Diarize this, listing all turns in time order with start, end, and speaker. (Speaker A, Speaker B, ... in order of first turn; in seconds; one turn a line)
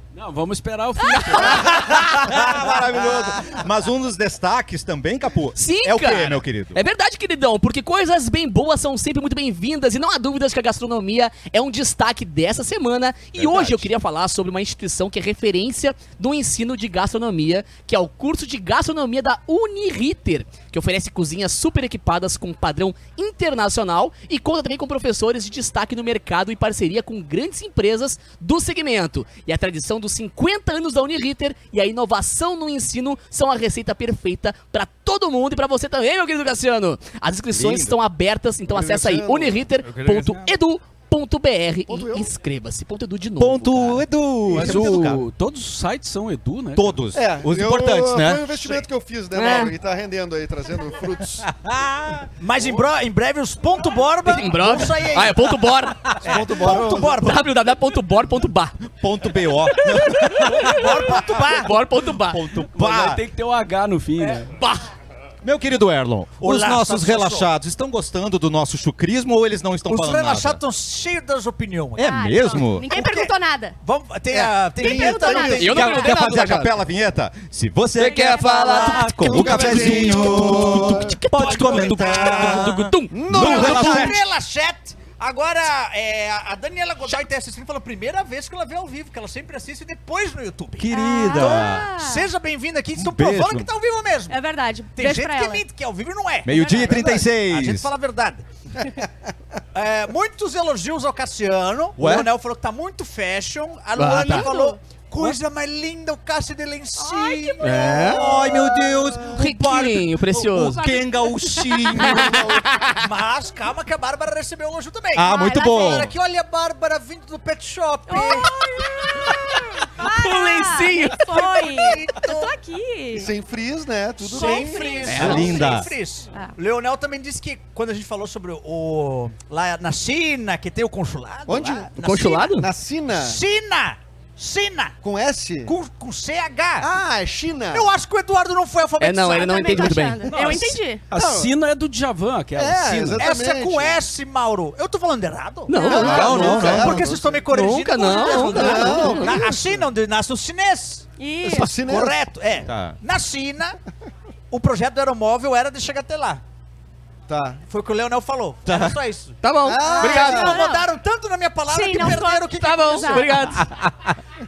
Speaker A: 0.1-1.9
Speaker B: 1.0-1.6
Speaker C: 1.5-6.8
Speaker D: 2.3-3.3
Speaker E: 5.5-44.0
Speaker C: 13.3-13.9
Speaker C: 37.5-37.9
Speaker F: 38.7-39.7
Speaker C: 39.9-40.4
Speaker F: 41.9-42.3
Speaker C: 43.4-45.2
Speaker A: 44.5-47.0
Speaker C: 46.7-48.8
Speaker F: 47.1-51.5
Speaker E: 49.3-49.7
Speaker C: 51.7-52.2
Speaker D: 52.2-57.5
Speaker E: 54.3-56.2
Speaker F: 56.2-57.2
Speaker E: 56.7-58.8
Speaker C: 59.0-61.6
Speaker E: 59.8-62.5
Speaker D: 60.7-61.7
Speaker C: 62.2-63.2
Speaker A: 62.7-64.5
Speaker E: 64.5-64.8
Speaker C: 65.4-70.6
Speaker D: 66.4-67.5
Speaker D: 69.9-72.2
Speaker C: 72.0-72.9
Speaker B: 72.0-73.8
Speaker D: 72.9-76.0
Speaker F: 74.3-75.7
Speaker B: 74.8-76.2
Speaker E: 75.6-76.7
Speaker C: 75.7-84.2
Speaker E: 77.9-84.1
Speaker B: 78.1-79.7
Speaker F: 79.2-81.2
Speaker D: 81.4-82.7
Speaker F: 83.1-84.1
Speaker D: 83.3-94.4
Speaker C: 90.8-91.9
Speaker B: 90.9-92.3
Speaker C: 93.0-93.7
Speaker B: 94.3-95.6
Speaker D: 94.9-98.4
Speaker C: 96.4-97.9
Speaker D: 99.7-108.8
Speaker C: 102.0-102.3
Speaker E: 104.0-104.5
Speaker B: 104.2-104.8
Speaker B: 107.0-108.2
Speaker E: 107.6-108.2
Speaker C: 108.0-112.6
Speaker F: 108.5-109.0
Speaker E: 109.3-110.8
Speaker B: 110.8-112.0
Speaker F: 112.0-112.6
Speaker E: 112.0-113.0
Speaker D: 112.9-118.6
Speaker C: 115.1-116.1
Speaker B: 115.3-116.1
Speaker B: 118.1-123.3
Speaker E: 120.0-121.3
Speaker D: 121.3-122.5
Speaker F: 123.1-125.5
Speaker D: 124.2-132.5
Speaker B: 124.3-126.5
Speaker C: 125.0-125.9
Speaker E: 125.1-125.5
Speaker F: 131.5-131.9
Speaker E: 132.0-132.7
Speaker F: 132.5-133.4
Speaker D: 133.2-134.9
Speaker F: 135.0-135.7
Speaker D: 135.6-136.9
Speaker F: 136.8-137.9
Speaker D: 137.7-140.6
Speaker E: 139.0-140.5
Speaker B: 139.2-141.0
Speaker A: 141.1-143.2
Speaker F: 141.1-141.5
Speaker F: 142.5-144.1
Speaker D: 143.2-153.8
Speaker E: 145.7-146.9
Speaker B: 145.7-146.5
Speaker F: 145.9-147.4
Speaker C: 145.9-147.1
Speaker E: 147.5-149.3
Speaker B: 148.2-149.1
Speaker F: 148.4-149.8
Speaker B: 151.2-151.7
Speaker F: 151.4-152.2
Speaker C: 152.7-153.0
Speaker D: 154.5-156.4
Speaker F: 157.3-157.6
Speaker D: 157.7-159.4
Speaker C: 158.7-159.0
Speaker E: 159.4-160.6
Speaker F: 159.6-160.6
Speaker B: 159.8-160.9
Speaker D: 159.9-163.4
Speaker B: 161.7-163.6
Speaker E: 162.6-163.7
Speaker C: 163.6-163.9